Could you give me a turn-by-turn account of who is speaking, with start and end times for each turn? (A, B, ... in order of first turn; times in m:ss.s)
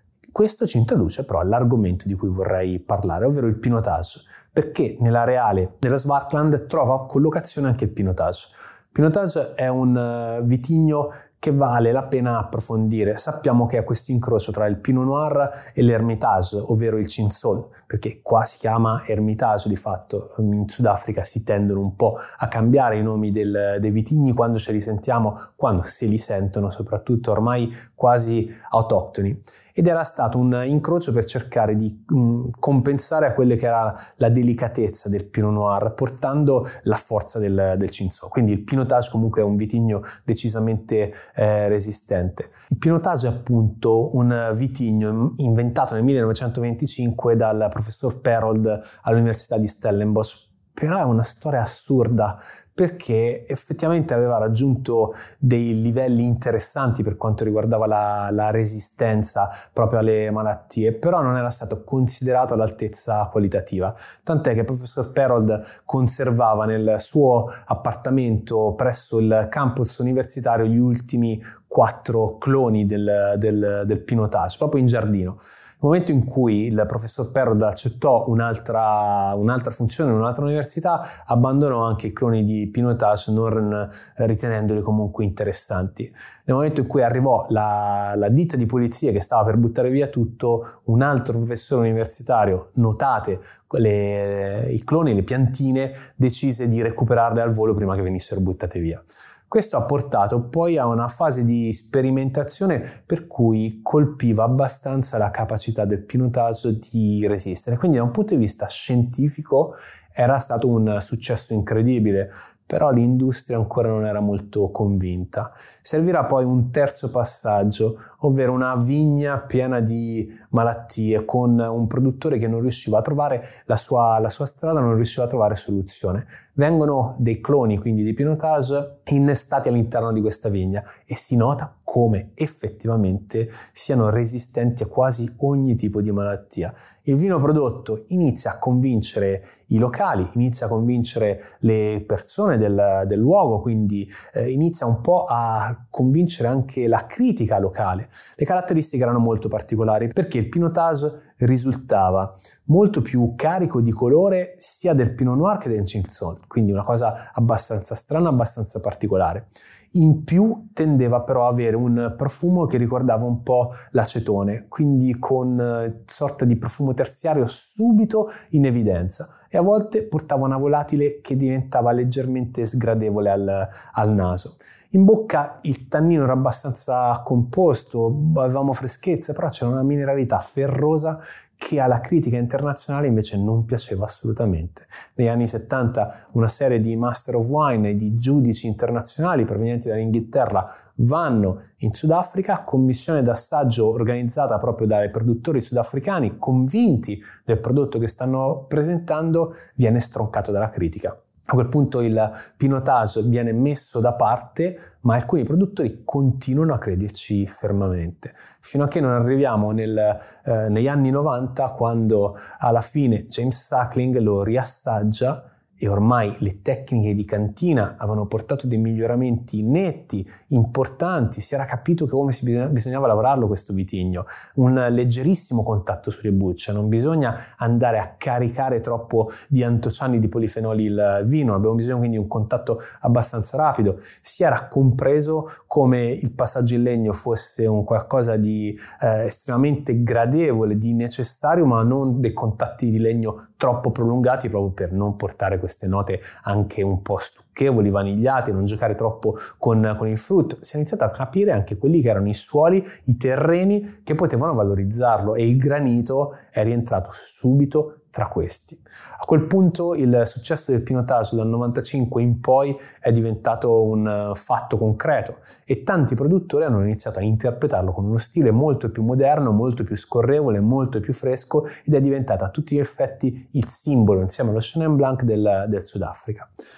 0:00.3-4:36.5 A